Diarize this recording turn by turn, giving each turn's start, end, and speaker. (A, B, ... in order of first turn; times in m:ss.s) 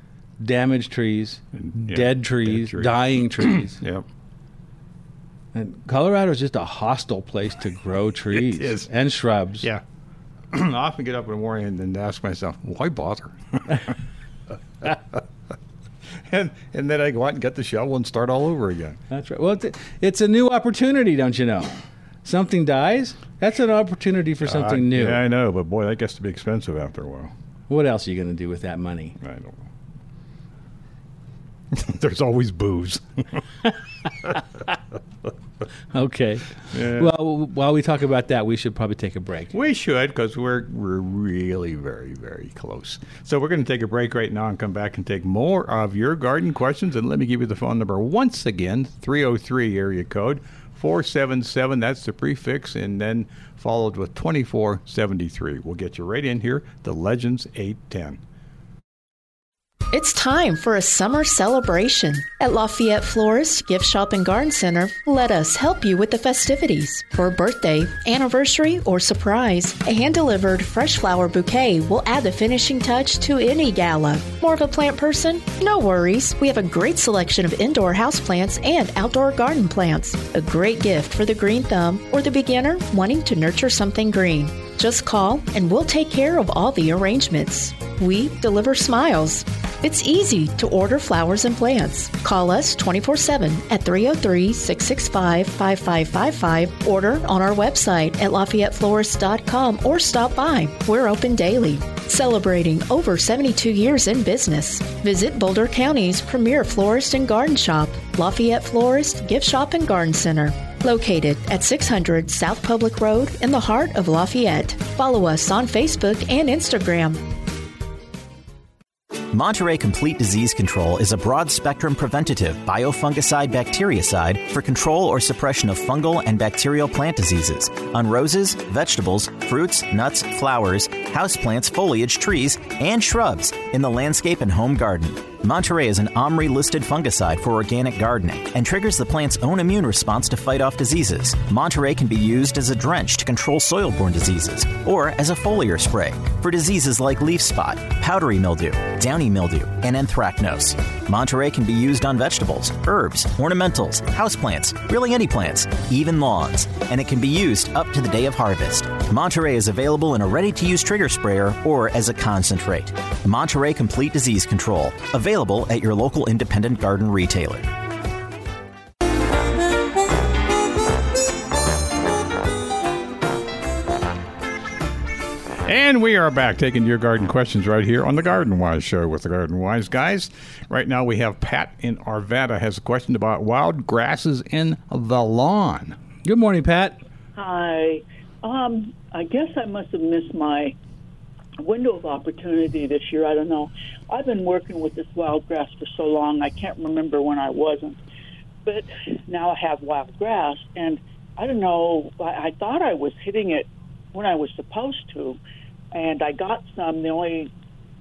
0:00.4-0:03.8 A
0:01.5-0:04.0 B
0:05.5-0:09.7 A
0:08.3-0:08.9 B
0:10.5-0:14.0 B
0:14.8-0:15.2 B
0:16.1-0:19.0 B
0:19.1-0:21.7 A
0:22.2-0:25.2 A
0:24.4-0:27.3 B
0:27.7-0:29.2 A
0:29.2-0:29.7 B
0:31.7-0:33.4 B
0:35.9-0:39.5 A
0:36.7-0:37.1 B
0:39.5-0:58.2 B
0:59.9-1:57.2 C
1:59.3-2:47.7 D
2:55.6-3:06.0 B
3:06.2-3:07.0 A
3:07.4-3:10.8 E
3:11.6-3:18.0 E
3:18.6-3:25.4 E
3:25.9-3:27.5 E